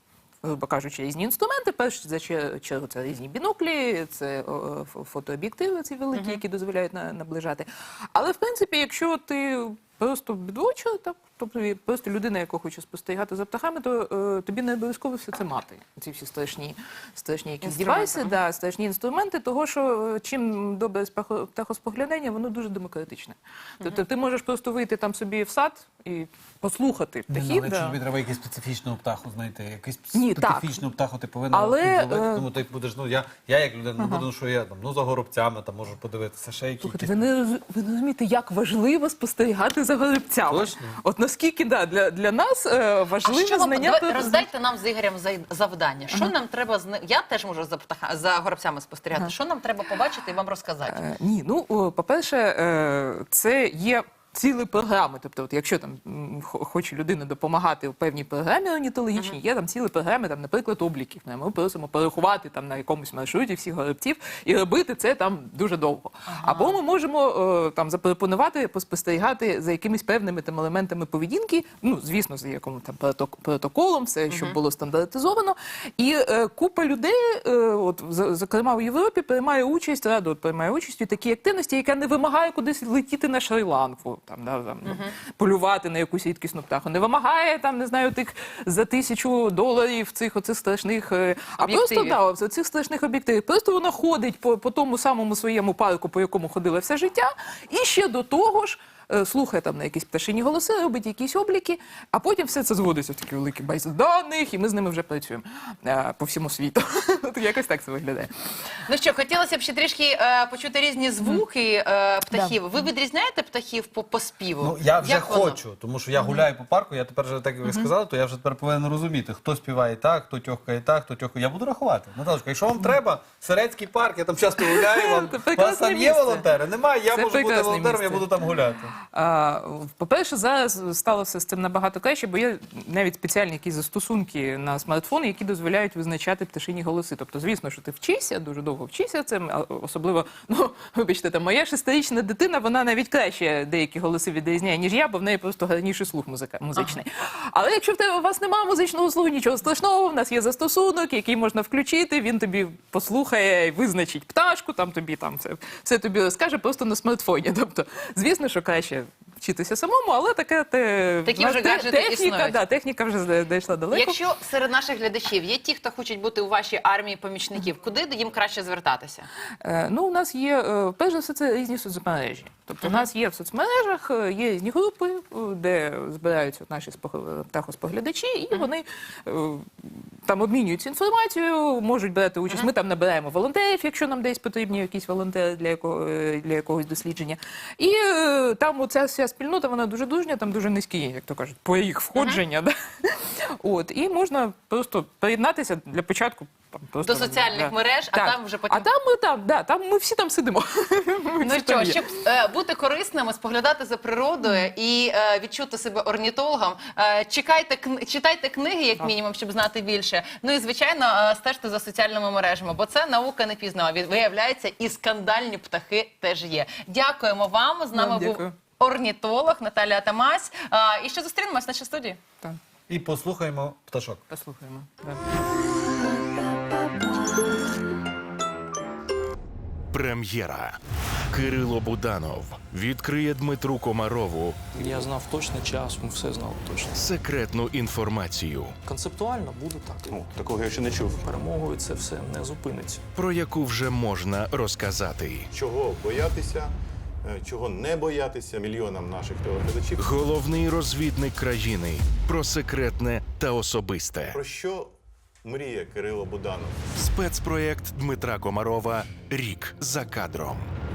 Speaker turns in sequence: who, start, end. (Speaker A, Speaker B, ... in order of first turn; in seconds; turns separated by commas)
Speaker A: 0.4-28.0, Speaker B: 6.1-6.4, Speaker B: 17.6-18.4, Speaker C: 27.3-37.2, Speaker A: 30.1-30.8, Speaker A: 31.5-32.5, Speaker A: 34.0-34.2, Speaker A: 36.8-44.5, Speaker C: 40.5-41.0, Speaker B: 43.2-51.0, Speaker A: 50.9-108.3, Speaker B: 66.3-66.8, Speaker B: 74.3-74.6, Speaker B: 84.8-85.1, Speaker B: 91.6-92.2, Speaker B: 108.9-115.6, Speaker A: 112.3-112.6, Speaker C: 114.6-128.9, Speaker A: 117.6-117.9, Speaker A: 124.6-126.5, Speaker A: 127.1-128.3, Speaker A: 129.1-164.2, Speaker B: 161.2-162.6, Speaker B: 163.9-169.3, Speaker A: 169.6-202.0, Speaker B: 192.2-192.4, Speaker B: 197.0-198.9, Speaker B: 201.4-222.2, Speaker A: 217.9-218.6, Speaker C: 222.9-224.2, Speaker A: 224.3-225.3, Speaker D: 229.9-230.8, Speaker D: 231.3-234.6, Speaker E: 234.7-237.0, Speaker D: 236.9-238.7, Speaker E: 238.8-243.0, Speaker F: 240.1-241.1, Speaker D: 243.1-245.5, Speaker F: 245.5-246.7, Speaker F: 247.2-250.1, Speaker D: 250.0-254.4, Speaker F: 254.3-254.9, Speaker F: 255.4-256.8, Speaker D: 256.9-260.7